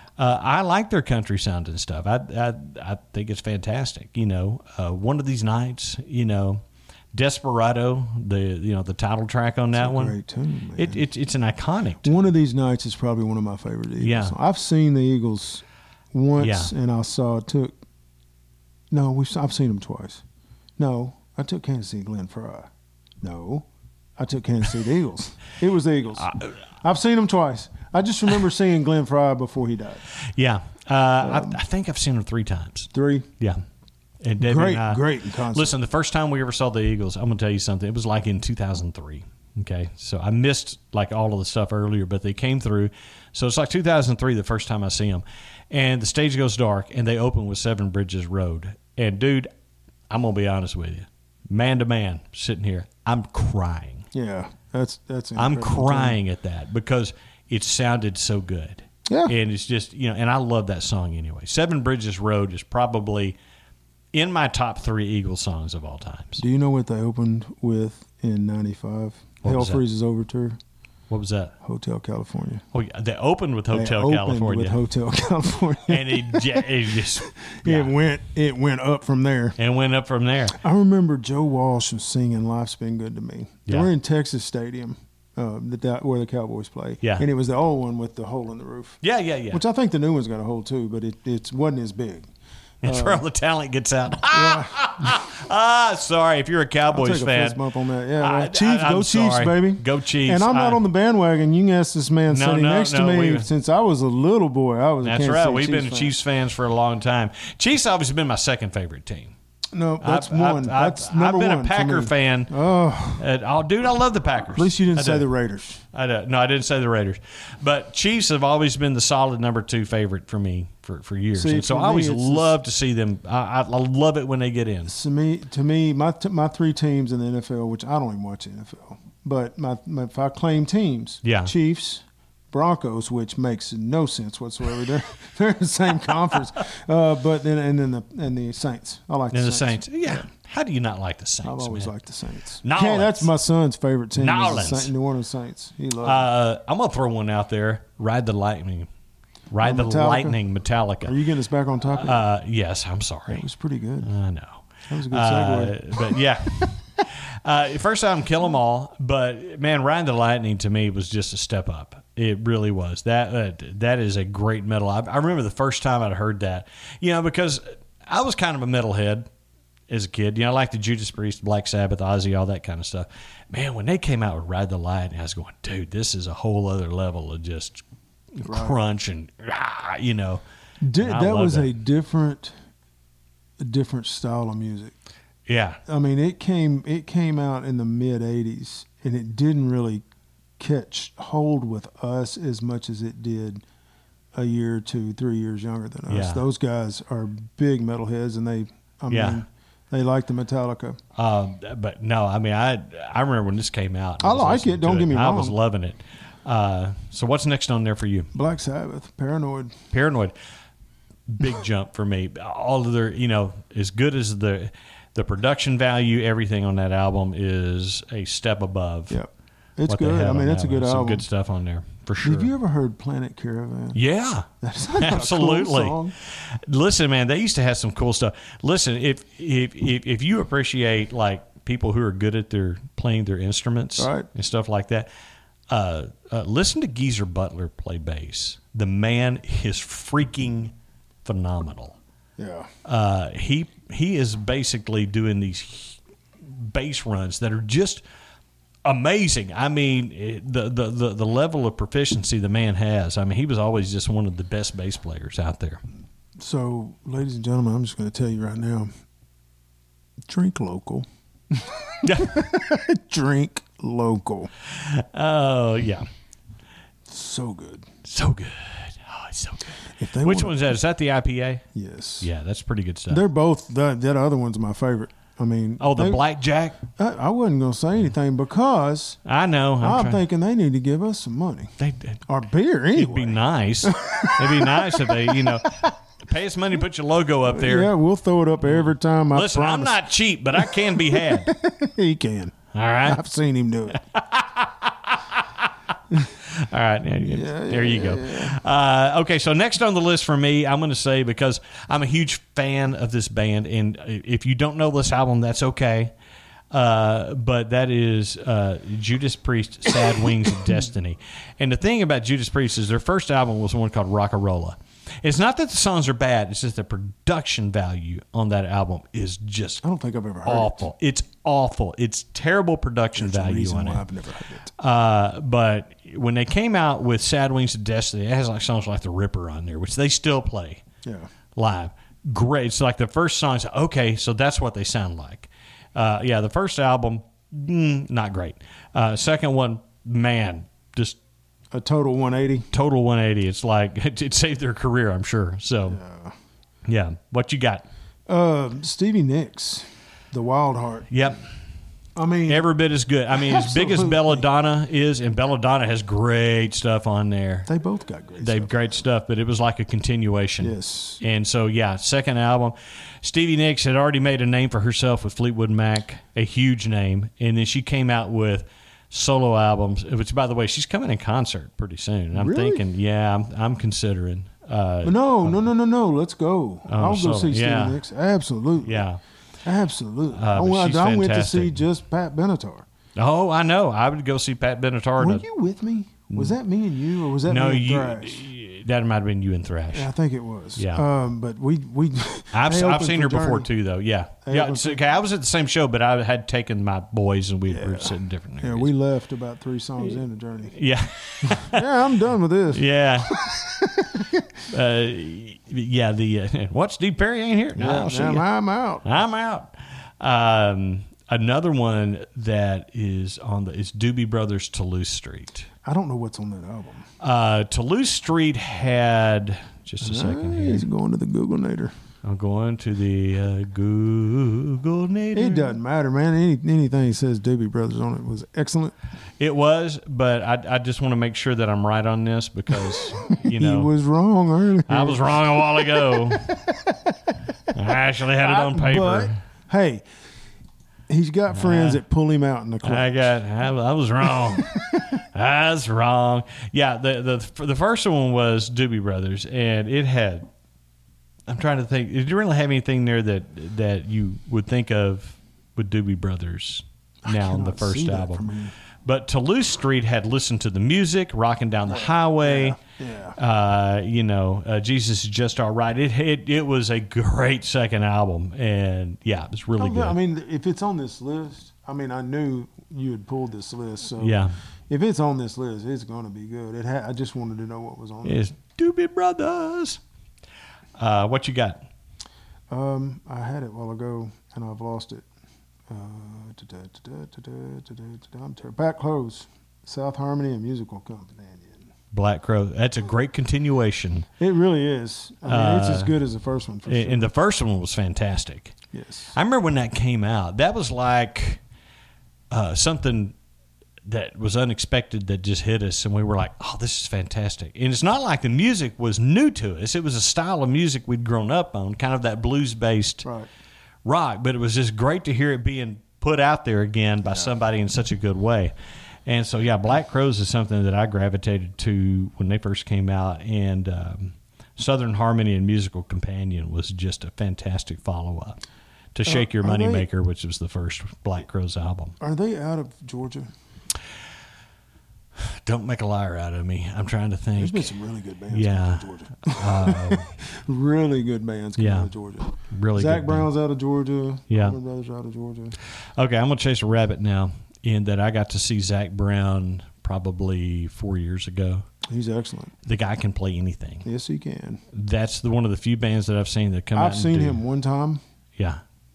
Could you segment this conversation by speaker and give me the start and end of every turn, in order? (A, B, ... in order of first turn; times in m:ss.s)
0:00.2-0:06.6 A
0:07.1-0:10.2 A
0:09.7-0:11.0 B
0:10.8-0:12.1 A
0:12.0-0:17.7 B
0:14.0-0:14.3 A
0:16.4-0:16.7 A
0:18.9-0:20.2 B
0:20.8-0:22.7 B
0:23.2-0:23.6 B
0:24.2-0:30.0 B
0:26.2-0:26.5 A
0:30.2-0:33.6 A
0:31.2-0:31.6 B
0:32.9-0:33.3 B
0:34.2-0:49.5 A
0:34.4-0:35.8 B
0:50.1-0:54.1 A
0:54.1-0:56.2 B
0:55.4-1:03.4 A
0:59.1-0:59.3 B
1:04.1-1:06.4 A
1:06.4-1:10.6 B
1:09.4-1:09.8 A
1:11.1-1:11.5 A
1:11.6-1:12.6 B
1:12.7-1:14.8 A
1:13.7-1:19.6 B
1:15.9-1:17.9 A
1:19.6-1:20.6 A
1:20.5-1:32.3 B
1:27.0-1:27.3 A
1:29.0-1:29.6 A
1:32.8-1:37.6 A
1:32.8-1:33.2 B
1:34.3-1:35.2 B
1:36.9-1:46.1 B
1:38.2-1:40.8 A
1:42.3-1:43.5 A
1:45.0-1:49.3 A
1:49.7-1:53.2 B
1:50.0-1:52.5 A
1:53.2-1:55.3 A
1:54.5-1:55.8 B
1:55.9-2:04.9 A
2:01.3-2:02.5 B
2:04.9-2:20.2 B
2:11.2-2:11.5 A
2:19.3-2:21.9 A
2:21.4-2:26.2 B
2:22.6-2:23.3 A
2:24.2-2:24.9 A
2:26.0-2:28.9 A
2:29.5-2:31.1 A
2:29.6-2:30.4 B
2:31.0-2:32.2 B
2:31.9-2:33.4 A
2:33.3-2:34.1 B
2:34.0-2:49.3 A
2:34.9-2:35.9 B
2:49.9-2:57.8 A
2:58.3-3:00.4 A
2:58.4-2:58.8 B
3:00.8-3:02.6 B
3:01.0-3:01.7 A
3:03.6-3:04.9 B
3:05.5-3:05.8 A
3:05.8-3:10.0 B
3:10.6-3:13.6 B
3:14.3-3:21.0 B
3:16.1-3:16.4 A
3:19.1-3:19.4 A
3:21.2-3:28.3 A
3:24.2-3:25.6 B
3:28.3-3:29.8 B
3:29.9-3:30.3 A
3:31.3-3:39.2 A
3:39.1-3:41.2 B
3:39.8-3:42.5 A
3:42.2-3:44.0 B
3:43.9-3:55.1 A
3:44.6-3:46.1 B
3:54.0-3:54.3 B
3:55.7-4:00.7 A
4:01.2-4:02.0 A
4:02.4-4:02.7 B
4:02.8-4:08.0 A
4:08.8-4:15.8 A
4:16.4-4:18.9 B
4:20.2-4:24.5 B
4:22.0-4:22.4 A
4:24.7-4:26.1 A
4:27.1-4:27.9 B
4:28.0-4:31.6 A
4:29.9-4:30.8 B
4:31.7-4:32.3 B
4:32.2-4:33.2 A
4:33.1-4:36.2 B
4:35.8-4:36.8 A
4:36.9-4:39.2 B
4:39.2-4:40.2 A
4:39.8-4:41.7 B
4:41.8-4:42.2 A
4:42.3-4:45.9 B
4:42.9-4:47.9 A
4:47.4-4:50.0 B
4:48.7-4:51.5 A
4:50.6-4:54.0 B
4:52.7-4:53.2 A
4:54.1-4:55.7 A
4:56.3-5:06.1 A
4:57.2-4:58.6 B
5:06.7-5:19.8 A
5:19.8-5:20.9 B
5:20.4-5:24.0 A
5:23.2-5:24.7 B
5:24.8-5:30.8 A
5:31.0-5:31.3 B
5:31.6-5:41.2 A
5:41.7-5:42.7 B
5:42.7-5:46.0 A
5:45.9-5:46.4 B
5:46.9-5:47.8 A
5:48.3-5:51.2 B
5:51.1-5:51.4 A
5:52.1-5:52.7 B
5:52.5-5:57.7 A
5:53.3-5:54.4 B
5:57.7-5:58.9 B
5:58.4-6:15.6 A
6:00.6-6:01.2 B
6:12.3-6:12.8 B
6:15.0-6:19.0 B
6:16.9-6:18.0 A
6:18.8-6:19.2 A
6:19.6-6:22.8 B
6:20.3-6:21.8 A
6:23.2-6:25.4 A
6:25.2-6:28.4 B
6:26.3-6:26.6 A
6:27.4-6:30.1 A
6:29.9-6:33.7 B
6:30.8-6:31.0 A
6:32.5-6:38.9 A
6:34.4-6:35.0 B
6:37.7-6:40.7 B
6:40.7-6:41.8 A
6:41.4-6:44.5 B
6:42.7-6:43.4 A
6:44.7-6:48.4 A
6:47.8-6:49.0 B
6:49.0-6:55.7 A
6:55.8-6:57.1 B
6:57.2-7:00.9 A
7:00.0-7:01.9 B
7:02.2-7:05.8 A
7:05.3-7:08.9 B
7:09.4-7:13.9 A
7:12.7-7:17.3 B
7:14.9-7:16.5 A
7:17.7-7:19.4 A
7:18.4-7:20.0 B
7:21.1-7:23.2 B
7:21.5-7:22.0 A
7:22.8-7:30.5 A
7:24.2-7:25.2 B
7:31.5-7:38.4 A
7:37.2-7:38.7 B
7:39.0-7:42.8 A
7:41.9-7:43.4 B
7:43.4-7:50.2 A
7:49.8-7:58.4 B
7:54.2-7:54.6 A
7:58.2-8:00.0 A
8:01.0-8:01.9 A
8:02.7-8:05.2 B
8:05.9-8:11.9 B
8:12.1-8:14.3 A
8:14.4-8:17.3 B
8:15.4-8:16.1 A
8:16.9-8:18.8 A
8:18.9-8:19.3 B
8:19.3-8:21.6 A
8:22.5-8:23.3 A
8:24.0-8:33.3 A
8:33.2-8:33.5 B
8:34.0-8:38.7 A
8:37.2-8:37.5 B
8:39.2-8:48.6 A
8:49.1-8:52.2 A
8:49.2-8:50.1 B
8:52.2-8:53.5 B
8:55.4-8:57.9 A
8:57.6-9:05.8 B
8:58.5-9:00.3 A
9:01.8-9:02.1 A
9:02.7-9:03.5 A
9:04.5-9:04.8 A
9:06.2-9:11.8 A
9:12.0-9:12.8 B
9:12.8-9:14.1 A
9:14.0-9:14.8 B
9:14.9-9:17.6 A
9:16.9-9:18.2 B